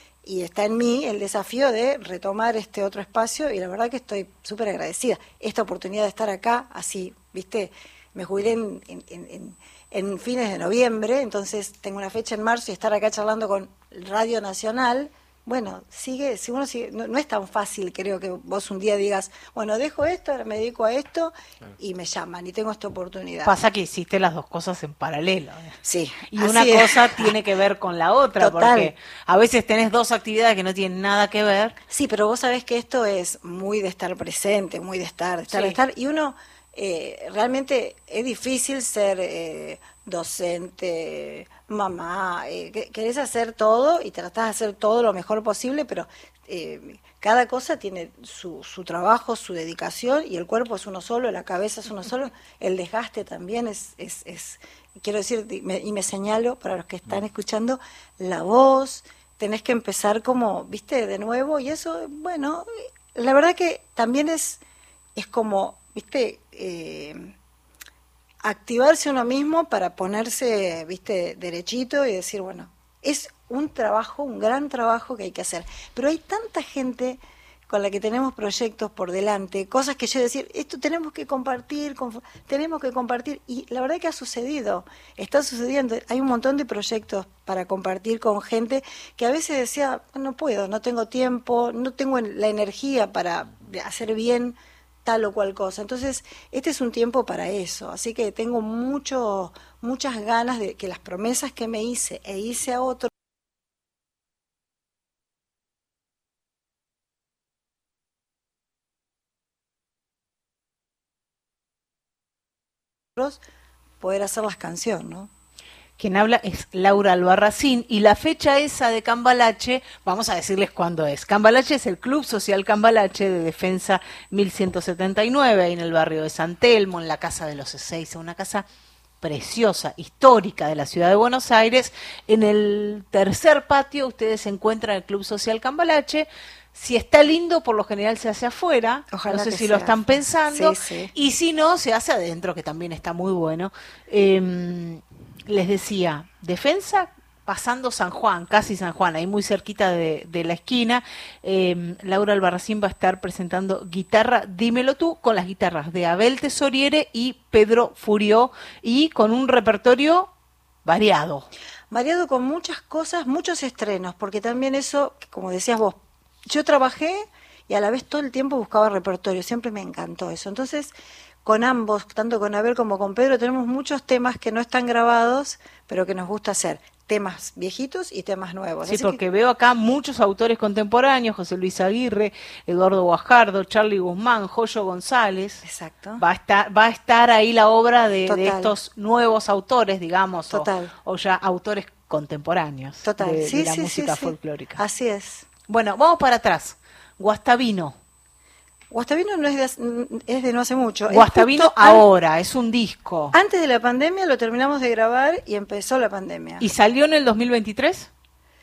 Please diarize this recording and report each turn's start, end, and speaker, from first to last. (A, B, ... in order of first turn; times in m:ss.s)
0:00.2-0:23.5 A
0:23.4-0:25.8 B
0:25.8-0:27.3 A
0:26.3-0:31.8 B
0:28.4-0:28.9 A
0:31.9-1:04.6 A
0:35.5-0:35.8 B
1:05.2-1:07.3 A
1:08.4-1:43.1 A
1:53.2-1:53.4 A
1:54.0-1:55.3 A
1:56.0-2:08.6 B
2:09.2-2:40.3 B
2:19.1-2:19.9 A
2:20.5-2:21.1 A
2:40.8-2:41.4 B
2:41.9-2:50.9 A
2:51.4-2:59.2 A
2:58.8-3:05.6 B
3:05.6-3:06.2 A
3:06.2-3:14.8 B
3:08.3-3:08.7 A
3:10.5-3:10.9 A
3:13.0-3:15.4 A
3:15.7-3:18.0 B
3:18.9-3:22.0 A
3:21.1-3:23.3 B
3:23.3-3:26.6 A
3:26.6-3:28.1 B